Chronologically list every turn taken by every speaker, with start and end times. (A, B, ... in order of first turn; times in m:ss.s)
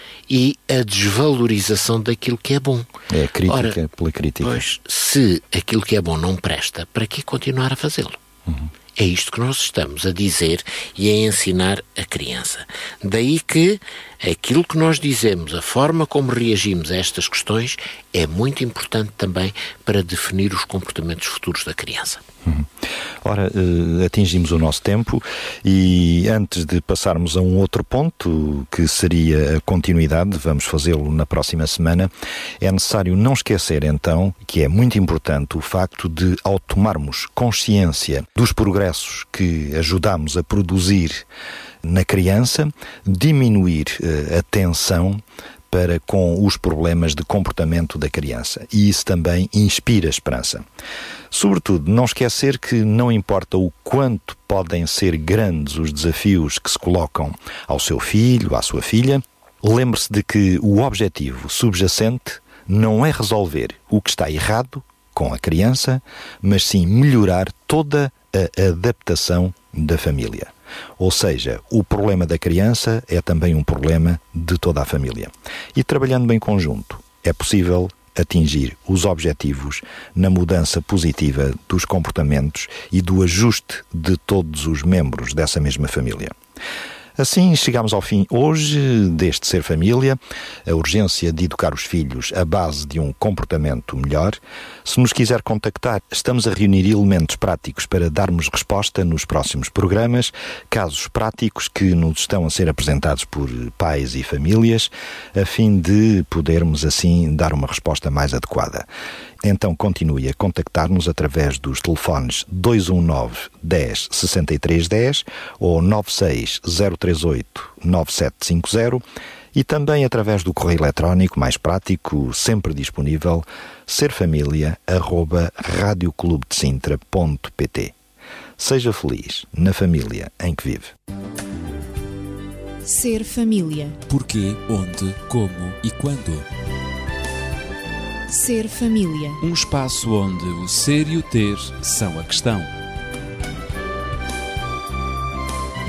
0:00.3-0:02.9 A
0:03.1-0:04.6 B
0:03.4-0:03.8 A
0:04.4-0:08.2 A
0:09.0-0:22.2 A
0:22.4-0:22.7 B
0:23.2-0:41.2 B
0:41.8-0:50.6 B
0:51.3-1:26.3 B
1:27.2-1:48.8 B
1:49.4-1:59.0 B
1:59.5-2:07.9 B
2:08.6-2:10.9 B
2:12.8-2:14.0 C
2:14.1-2:16.4 D
2:18.3-2:19.4 C
2:19.4-2:22.7 D